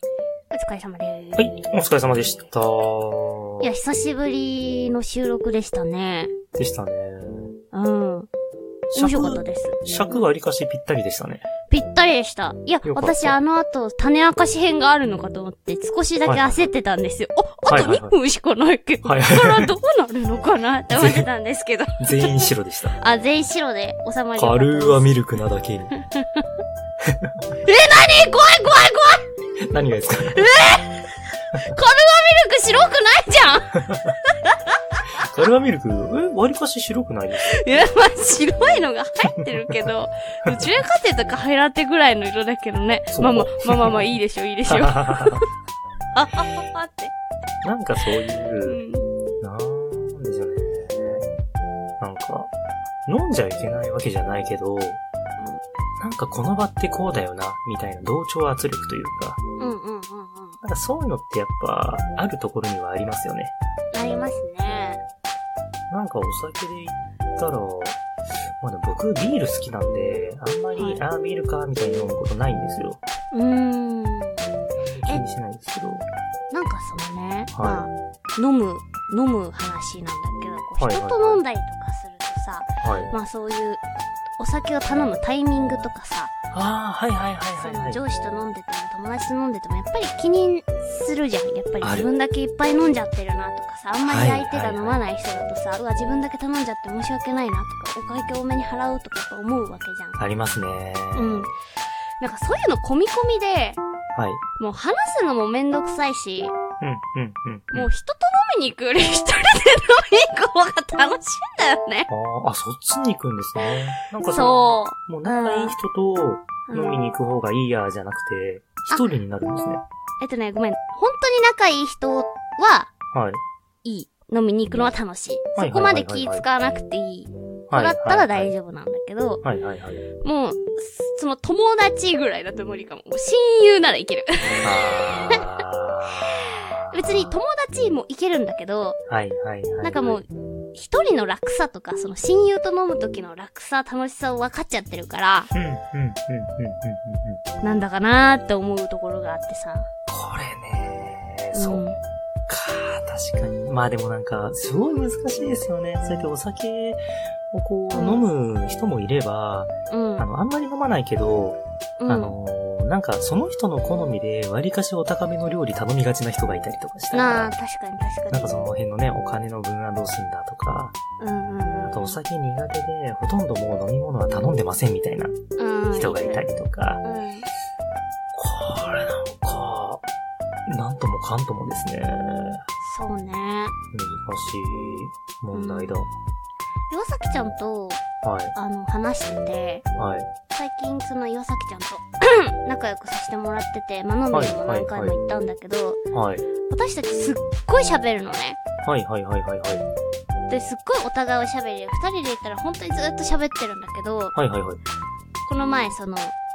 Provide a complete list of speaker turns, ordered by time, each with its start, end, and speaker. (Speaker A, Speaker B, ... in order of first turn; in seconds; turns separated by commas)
Speaker A: 0.5-1.7, Speaker B: 1.4-3.7, Speaker A: 3.6-6.3, Speaker B: 6.5-7.6, Speaker A: 7.7-8.3, Speaker B: 8.9-11.4, Speaker A: 8.9-10.2, Speaker A: 11.7-25.1, Speaker B: 12.8-13.4, Speaker B: 16.2-16.7, Speaker B: 17.6-18.2, Speaker B: 19.0-19.7, Speaker B: 20.9-21.3, Speaker B: 22.0-23.0, Speaker B: 24.4-25.9, Speaker A: 26.0-26.4, Speaker B: 27.1-27.4, Speaker A: 27.6-29.2, Speaker B: 29.7-30.5, Speaker A: 30.3-35.0, Speaker B: 33.7-34.1, Speaker B: 35.1-37.6, Speaker A: 37.4-45.5, Speaker B: 43.1-44.1, Speaker B: 44.7-45.4, Speaker A: 46.1-47.1, Speaker B: 47.6-48.8, Speaker A: 48.6-49.1, Speaker B: 49.4-51.3, Speaker B: 52.0-52.5, Speaker B: 53.0-55.0, Speaker B: 56.0-59.4, Speaker A: 59.6-60.6, Speaker B: 60.6-63.5, Speaker A: 63.9-65.0, Speaker B: 65.9-68.0, Speaker B: 68.6-73.0, Speaker A: 70.7-71.0, Speaker A: 73.3-74.5, Speaker B: 74.7-76.0, Speaker A: 76.5-83.8, Speaker B: 77.5-77.9, Speaker B: 80.8-81.4, Speaker B: 82.8-83.1, Speaker A: 84.4-86.3, Speaker B: 86.5-88.0, Speaker A: 87.6-100.2, Speaker B: 91.8-92.1, Speaker B: 94.0-95.0, Speaker B: 100.2-101.5, Speaker A: 101.1-101.5, Speaker A: 102.2-103.8, Speaker B: 104.1-104.4, Speaker A: 104.6-106.5, Speaker B: 106.8-107.9, Speaker A: 107.7-112.1, Speaker B: 112.1-119.8, Speaker A: 114.2-115.8, Speaker A: 116.7-117.0, Speaker A: 120.2-122.9, Speaker B: 123.1-123.4, Speaker A: 123.8-129.4, Speaker B: 125.6-126.5, Speaker B: 127.7-128.5, Speaker B: 129.4-130.1, Speaker A: 130.2-135.4, Speaker B: 134.6-136.9, Speaker A: 136.9-139.0, Speaker B: 139.1-140.2, Speaker A: 139.8-145.5, Speaker B: 145.5-147.4, Speaker A: 147.6-149.9, Speaker B: 150.1-151.8, Speaker A: 151.5-152.0, Speaker B: 152.5-167.5, Speaker A: 157.9-158.2, Speaker A: 159.9-160.3, Speaker A: 162.0-162.3, Speaker A: 167.1-168.5, Speaker B: 168.3-170.9, Speaker A: 171.2-172.2, Speaker B: 171.9-175.3, Speaker A: 175.6-176.4, Speaker B: 175.9-177.0, Speaker A: 177.0-177.5, Speaker B: 178.3-180.0, Speaker B: 180.7-182.6, Speaker A: 182.8-183.7, Speaker B: 183.9-186.1, Speaker A: 185.5-185.9, Speaker A: 186.9-188.0, Speaker B: 188.2-188.5, Speaker A: 188.5-189.8, Speaker B: 190.0-190.3, Speaker A: 190.5-196.0, Speaker B: 194.3-195.2, Speaker B: 196.1-196.5, Speaker A: 196.7-198.6, Speaker B: 198.8-199.8, Speaker A: 200.5-204.3, Speaker B: 204.3-204.8, Speaker A: 205.4-206.3